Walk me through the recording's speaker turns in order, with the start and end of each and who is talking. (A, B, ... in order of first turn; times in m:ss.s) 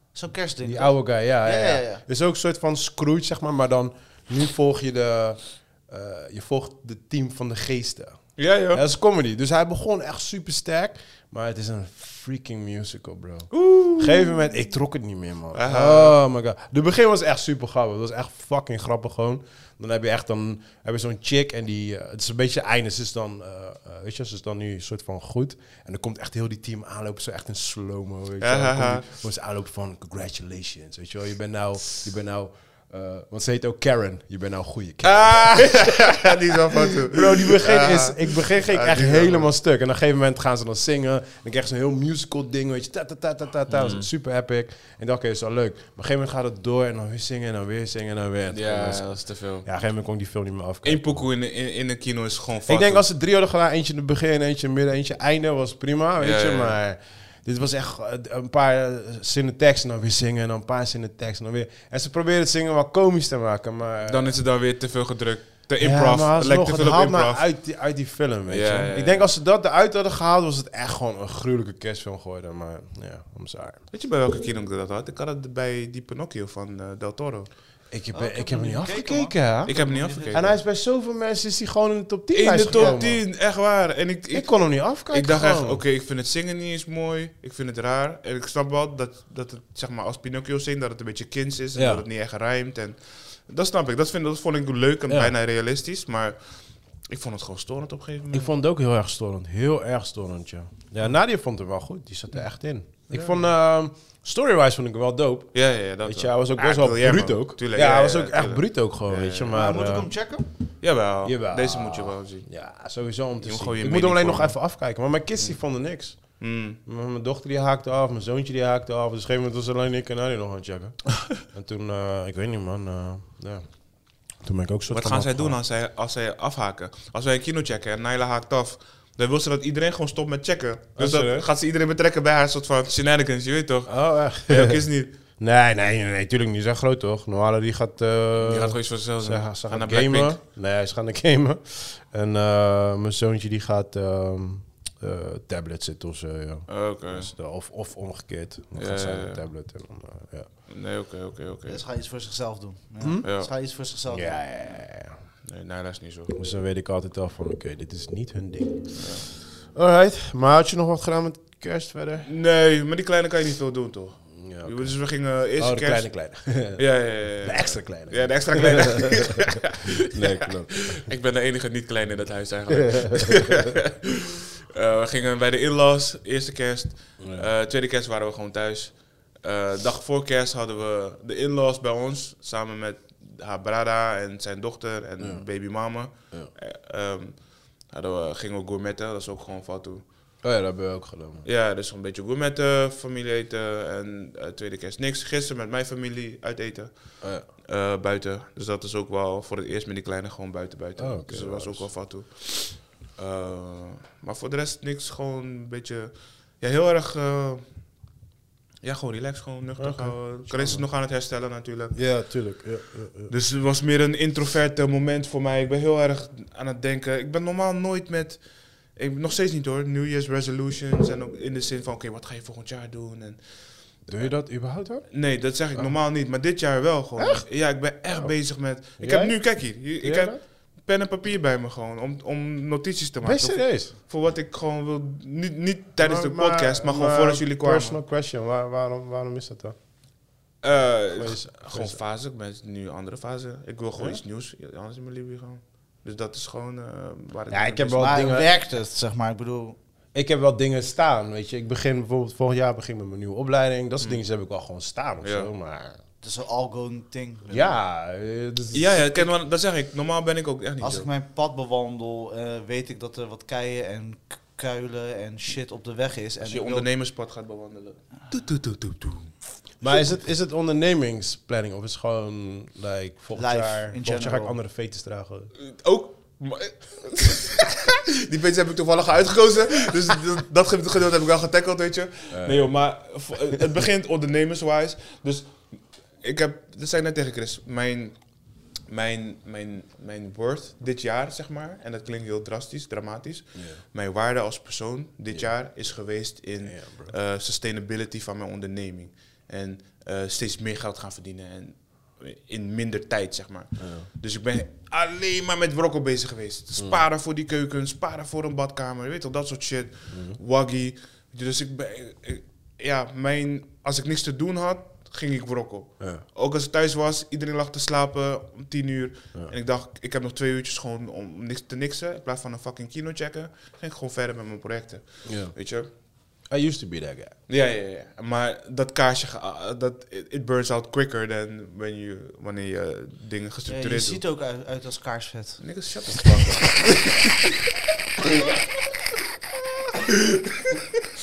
0:00.1-0:02.0 A
0:00.6-0:36.3 B
0:08.4-0:08.8 C
0:13.5-0:14.6 C
0:15.5-0:16.2 C
0:28.4-0:29.1 C
0:35.0-0:39.5 C
0:37.0-0:51.3 B
0:43.7-0:44.1 C
0:48.5-0:49.7 C
0:50.8-0:53.1 C
0:52.7-1:04.4 B
0:56.2-0:56.8 C
1:04.1-1:07.6 C
1:05.8-1:13.8 B
1:08.5-1:09.3 C
1:13.9-1:17.5 C
1:17.9-1:23.3 B
1:18.1-1:20.5 A
1:19.6-1:20.5 C
1:22.3-1:38.5 C
1:24.3-1:25.8 B
1:31.7-1:32.1 B
1:35.1-1:35.4 B
1:38.3-1:50.2 B
1:43.1-1:43.4 C
1:45.5-1:49.5 C
1:49.5-1:50.5 A
1:50.8-1:52.5 C
1:51.2-2:05.6 B
1:53.4-1:54.7 C
1:56.4-1:56.8 C
2:04.9-2:15.1 C
2:11.0-2:11.5 B
2:13.9-2:14.8 B
2:15.4-2:30.5 B
2:18.4-2:20.4 C
2:26.7-2:27.3 C
2:28.8-2:29.4 C
2:30.7-2:31.8 C
2:31.7-2:34.6 A
2:33.0-2:33.3 B
2:33.2-2:33.5 C
2:34.1-2:35.2 B
2:35.4-2:36.4 C
2:36.4-2:39.2 B
2:39.0-2:39.3 C
2:39.7-2:42.3 B
2:42.2-3:10.1 C
2:44.4-2:45.0 B
2:45.6-2:51.0 B
2:52.7-2:53.8 B
2:57.2-2:57.5 B
3:05.2-3:05.5 B
3:10.4-3:11.4 B
3:11.4-3:27.6 C
3:17.2-3:17.5 B
3:21.0-3:22.0 B
3:28.8-3:32.2 C
3:29.8-3:30.9 B
3:31.9-3:33.3 B
3:33.3-3:44.3 C
3:44.1-3:46.0 B
3:45.1-3:58.0 C
3:47.2-3:50.4 B
3:53.2-3:54.0 B
3:56.0-3:59.8 B
4:00.6-4:08.1 C
4:01.2-4:02.0 B
4:04.0-4:04.2 B
4:07.5-4:08.5 B
4:07.9-4:09.8 A
4:10.1-4:16.0 B
4:15.2-4:15.5 C
4:16.2-4:17.8 A
4:17.5-4:19.3 B
4:18.7-4:21.1 C
4:20.8-4:26.9 A
4:26.4-4:29.3 C
4:29.8-4:35.5 B
4:33.3-4:34.6 A
4:35.6-4:45.7 C
4:42.3-4:42.7 B
4:46.2-4:48.3 C
4:48.9-5:25.9 C
4:56.6-4:57.1 B
5:03.8-5:04.1 B
5:06.8-5:07.0 B
5:10.1-5:10.4 B
5:25.2-5:25.6 B
5:26.4-5:27.4 B
5:27.5-5:34.2 C
5:33.7-5:35.7 A
5:35.6-5:37.4 C